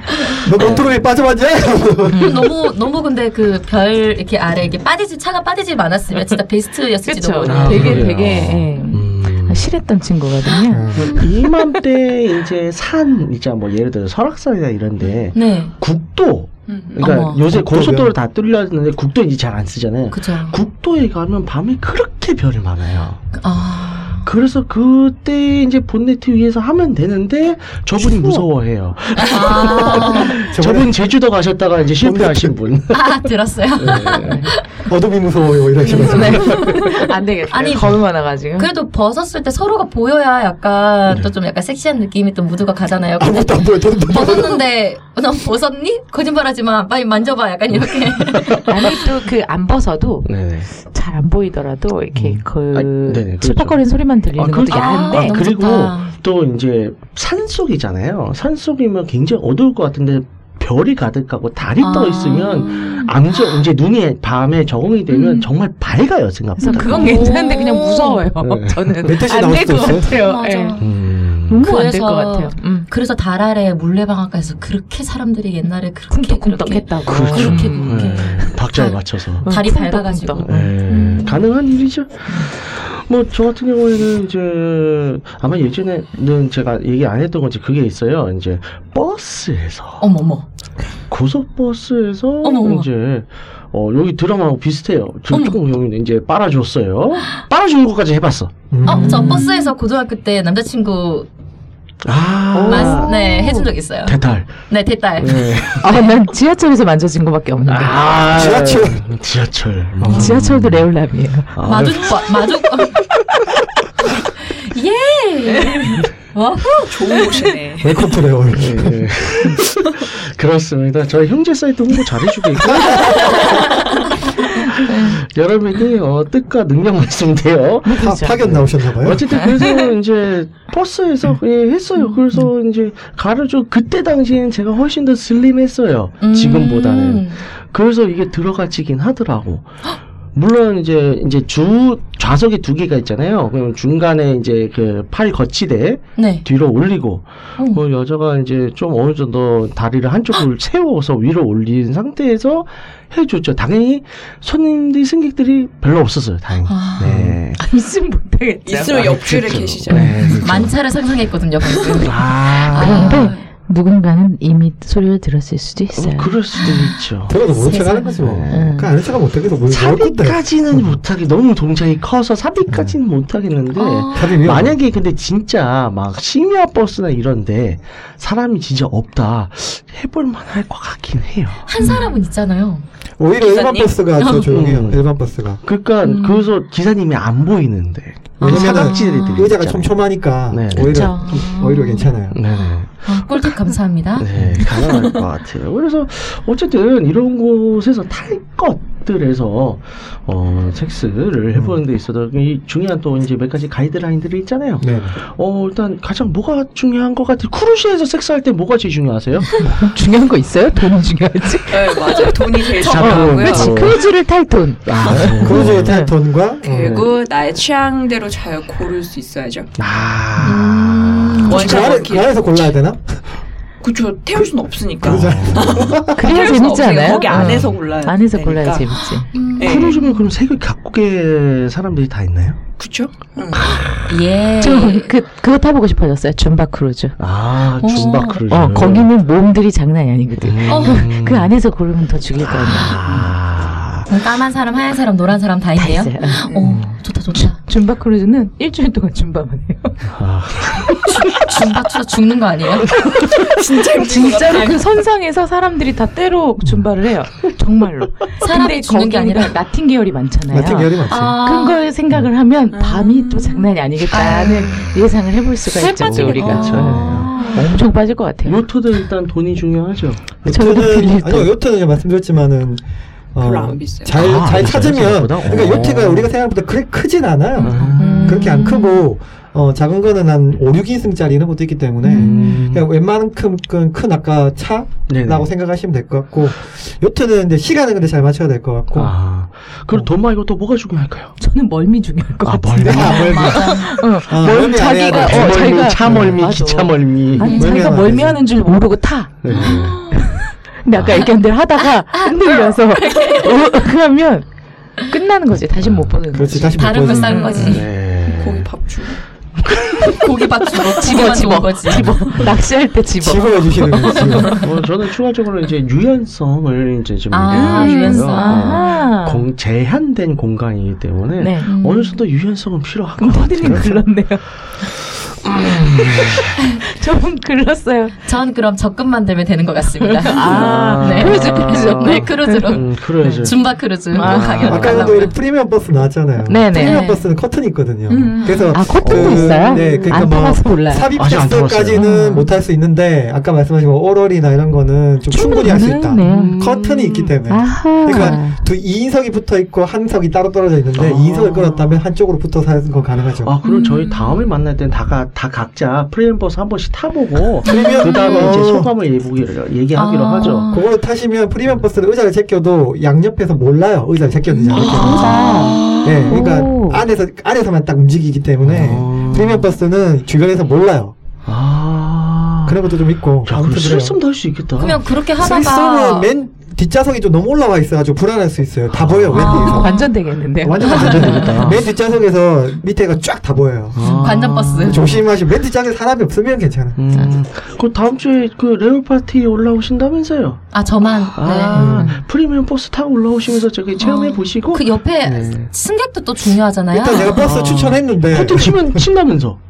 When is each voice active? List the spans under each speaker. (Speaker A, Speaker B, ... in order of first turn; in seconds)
Speaker A: 0.4-2.4, 10.7-11.2, 17.5-18.1, 30.4-30.9, 32.0-32.6, 34.9-36.8, 43.2-44.6, 69.0-70.2, 98.7-99.4, 108.3-109.0, 117.8-119.5, 122.6-123.4, 128.0-129.5, 157.0-157.4, 167.3-171.0, 172.7-173.0, 174.1-174.8, 181.8-182.1, 183.2-185.6, 188.4-192.4, 194.3-194.6, 201.5-201.8, 204.8-205.1, 215.1-217.0, 221.4-223.2, 225.0-226.5, 260.5-261.4, 270.4-272.8, 273.3-289.1, 292.8-296.6, 297.4-298.4, 306.3-307.6, 313.2-314.6, 334.6-353.5, 357.6-358.9, 360.5-371.1, 372.6-374.1, 375.4-379.9, 380.6-384.2, 384.8-387.2, 391.7-392.1, 396.9-399.1
Speaker B: 0.6-1.0, 7.4-9.7, 10.9-23.2, 24.2-33.1, 33.8-34.4, 48.2-48.6, 50.2-50.7, 52.1-53.8, 54.3-67.4, 68.4-69.2, 70.8-71.6, 77.0-79.5, 80.4-90.0, 91.1-98.7, 102.0-103.2, 104.0-104.7, 105.2-105.9, 107.7-110.9, 111.5-112.2, 118.5-123.6, 124.5-139.7, 140.3-157.6, 158.9-160.8, 161.9-163.3, 165.9-167.4, 168.2-168.7, 169.7-181.7, 184.4-185.1, 185.6-189.9, 190.5-191.1, 192.3-193.0, 194.2-209.6, 212.8-214.0, 214.8-216.0, 216.8-217.1, 219.8-221.9, 225.0-225.9, 229.6-232.6, 233.5-234.2, 237.2-239.1, 240.4-241.5, 242.4-244.1, 250.1-251.5, 264.7-265.1, 266.0-267.4, 268.4-270.4, 274.2-276.3, 277.6-278.4, 282.1-282.9, 285.1-285.5, 288.9-291.4, 292.4-293.8, 294.5-297.5, 299.4-300.0, 300.9-301.3, 305.8-306.1, 307.6-308.7, 309.6-310.2, 312.0-312.5, 314.5-324.1, 325.4-326.5, 330.4-335.0, 339.0-339.8, 341.1-342.1, 346.2-347.4, 350.9-352.0, 353.4-360.7, 364.7-365.9, 368.6-369.7, 371.4-372.8, 373.4-375.1, 378.9-379.8, 380.8-381.8, 383.9-385.2, 387.0-390.6, 391.3-395.7, 397.3-399.6
Speaker C: 2.1-2.5, 7.0-11.2, 35.8-38.7, 48.7-55.4, 66.6-70.8, 71.5-72.9, 76.1-78.7, 79.5-80.7, 98.8-99.5, 102.5-103.7, 105.8-108.1, 110.1-111.5, 127.8-128.4, 157.6-159.2, 159.9-160.4, 162.7-166.4, 168.5-168.9, 190.9-191.2, 209.6-216.1, 226.2-229.3, 234.6-237.2, 238.1-243.3, 245.8-246.4, 247.3-250.1, 253.9-268.7, 270.4-271.5, 277.9-278.7, 282.0-282.3, 291.4-304.4, 305.1-307.8, 310.8-314.6, 317.5-319.5, 321.4-321.7, 323.2-324.4, 326.8-328.2, 330.0-335.3, 336.5-337.1, 338.6-341.1, 341.9-342.5, 345.3-346.5, 347.5-348.6, 364.8-367.0, 379.3-381.8
Speaker D: 2.1-8.2, 10.4-11.3, 15.3-15.7, 17.0-17.6, 20.1-20.6, 23.4-24.3, 29.2-30.5, 32.9-34.9, 35.8-38.0, 38.5-48.9, 54.7-56.1, 61.8-63.6, 65.1-65.5, 66.6-68.3, 69.8-71.0, 71.6-81.5, 90.0-90.4, 92.4-92.9, 95.3-95.6, 98.8-101.3, 102.6-106.1, 111.6-113.0, 114.6-117.5, 123.0-123.8, 136.2-137.4, 146.2-146.4, 156.7-157.2, 160.4-163.4, 166.5-168.2, 173.7-174.4, 181.7-182.8, 184.2-184.5, 186.0-186.5, 188.4-189.5, 191.0-192.2, 193.0-195.1, 212.8-213.1, 220.4-221.5, 229.3-230.3, 234.1-235.1, 237.8-238.4, 240.7-241.1, 242.8-243.1, 244.1-247.6, 251.1-252.9, 258.4-259.6, 261.0-261.9, 264.1-264.9, 266.4-267.6, 278.0-279.0, 293.1-294.0, 297.4-297.9, 299.5-300.2, 302.1-303.6, 306.7-307.9, 310.0-312.3, 317.3-318.9, 321.6-322.2, 328.2-335.4, 336.7-337.2, 338.1-338.6, 339.8-340.1, 353.6-354.4, 357.6-358.6, 359.9-360.9, 364.5-366.1, 374.8-376.3, 379.3-380.1, 380.8-381.4, 384.0-385.2, 390.7-392.1, 394.0-397.6
Speaker E: 16.7-17.1, 115.5-116.0, 116.8-118.1, 158.7-160.2, 183.4-184.2, 211.7-213.9, 215.1-215.4, 216.6-219.7, 221.4-222.4, 223.8-228.9, 229.6-230.1, 232.8-233.9, 252.9-254.9, 262.7-263.7, 265.8-267.6, 273.4-274.4, 278.0-278.5, 307.1-309.2